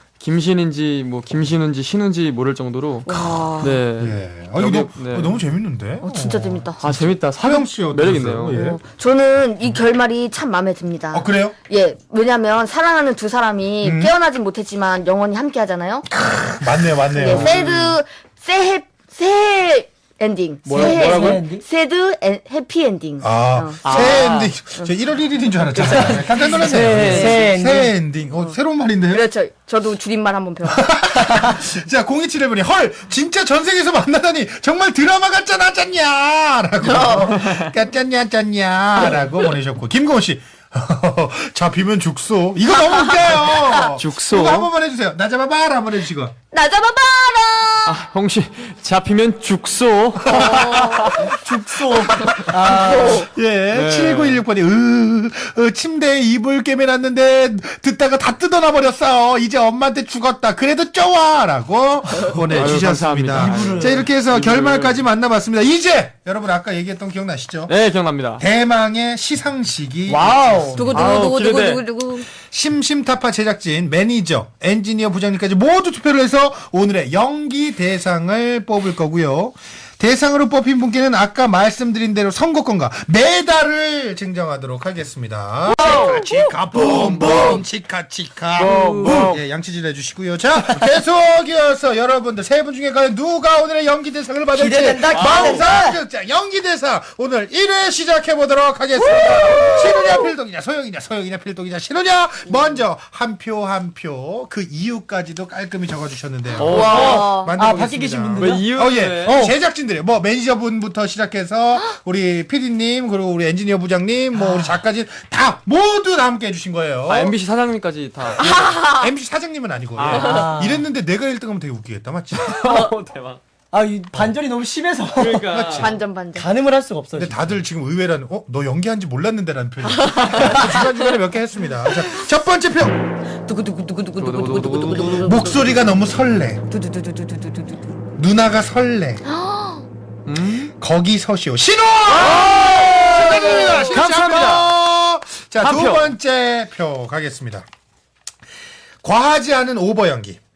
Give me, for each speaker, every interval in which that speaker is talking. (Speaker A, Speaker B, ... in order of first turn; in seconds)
Speaker A: 0.2-5.4, 6.8-8.6, 17.4-18.0, 20.7-21.4, 23.8-24.5, 26.5-27.4, 43.8-44.7, 47.9-50.9, 53.7-54.4, 62.5-65.0, 67.7-68.4, 70.1-71.8, 85.7-86.2, 87.2-87.5, 88.6-89.4, 95.1-95.5, 106.6-107.3, 108.4-109.5, 117.1-118.6, 120.0-120.6, 122.3-123.4, 125.2-125.9, 134.2-135.1, 140.3-140.7, 142.1-144.7, 145.6-146.1
Speaker B: 3.0-3.8, 6.0-6.8, 8.5-16.1, 17.2-24.2, 29.1-30.9, 36.8-37.3, 42.9-43.8, 46.5-48.0, 50.3-51.3, 52.1-53.3, 62.2-62.5, 70.8-72.3, 99.2-100.3, 106.6-107.5, 118.4-119.1, 125.7-126.5, 129.9-130.8, 133.4-135.9, 136.7-137.9, 139.2-139.8, 142.2-144.0
Speaker C: 4.0-8.8, 11.1-11.6, 13.8-14.1, 16.1-17.7, 23.2-29.3, 30.7-46.3, 50.3-51.2, 51.9-67.7, 68.4-71.2, 72.4-117.3, 118.4-122.9, 125.5-126.0, 127.2-133.0, 135.1-136.6, 138.2-139.2, 140.8-147.7, 149.0-150.4
Speaker D: 17.2-17.5, 20.7-21.6, 25.8-27.9, 51.2-53.2, 63.4-64.0, 86.8-87.6, 88.7-89.2, 94.5-96.0, 106.8-108.6, 114.4-114.8, 120.2-120.8, 123.7-125.6, 126.3-127.6